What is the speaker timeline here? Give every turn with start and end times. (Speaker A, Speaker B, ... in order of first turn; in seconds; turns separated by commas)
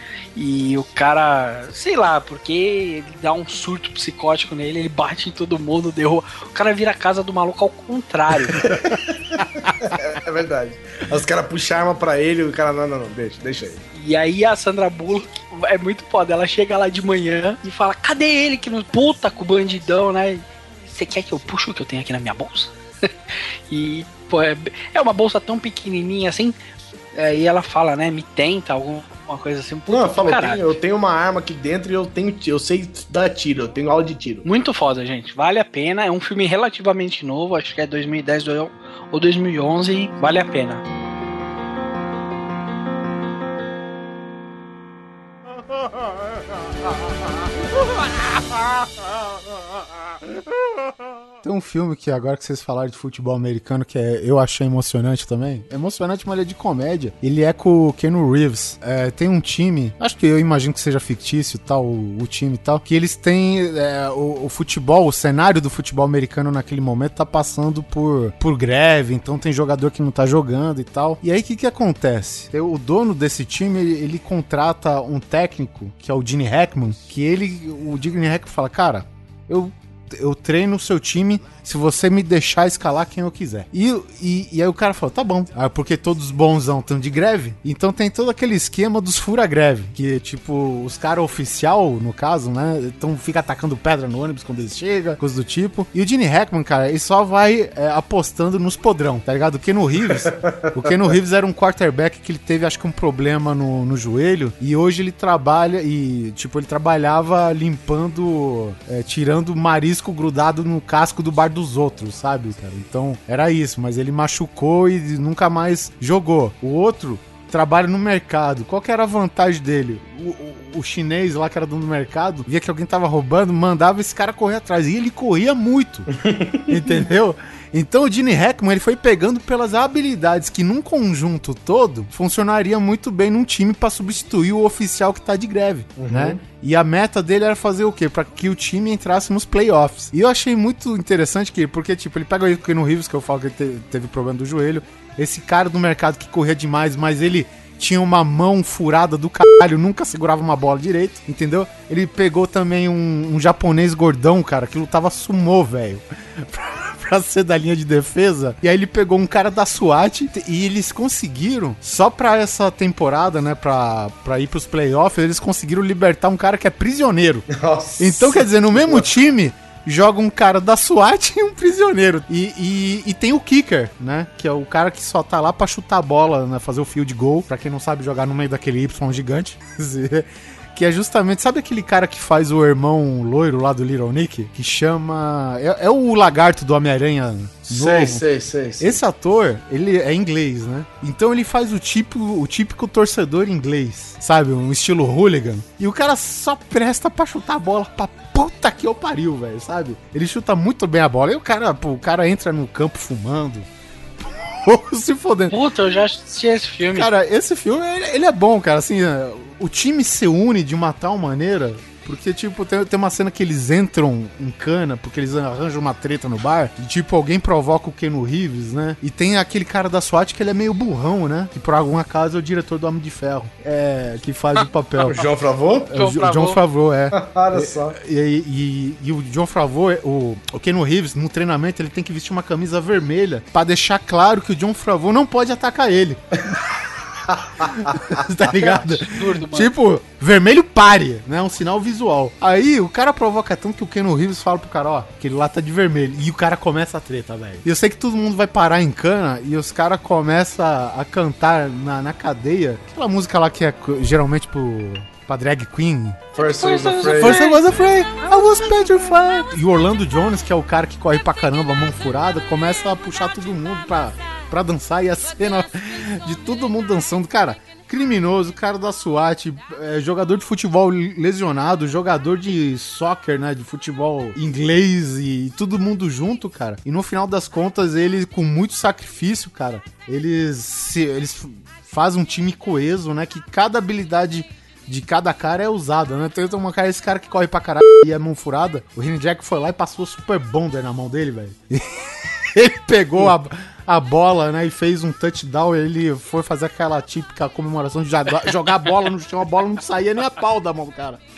Speaker A: 0.3-8.7, Speaker B: 8.6-13.8, Speaker A: 13.9-22.7, Speaker A: 23.7-26.6, Speaker A: 27.1-30.8, Speaker B: 29.9-34.5, Speaker A: 34.4-40.8, Speaker C: 51.4-126.1, Speaker B: 100.0-100.9, Speaker B: 126.2-126.9, Speaker C: 126.7-167.4, Speaker B: 136.0-136.4, Speaker B: 167.5-169.1, Speaker C: 168.0-188.2, Speaker B: 187.7-189.0, Speaker C: 188.8-203.7, Speaker C: 204.2-205.6, Speaker A: 205.5-207.1, Speaker C: 206.9-225.3, Speaker B: 225.0-225.9, Speaker C: 225.9-236.6, Speaker A: 225.9-226.6, Speaker B: 227.1-228.0, Speaker B: 237.3-238.0, Speaker C: 237.6-256.3, Speaker A: 238.4-239.7, Speaker B: 256.4-257.4, Speaker A: 256.4-257.6, Speaker C: 257.1-301.2, Speaker A: 258.2-258.9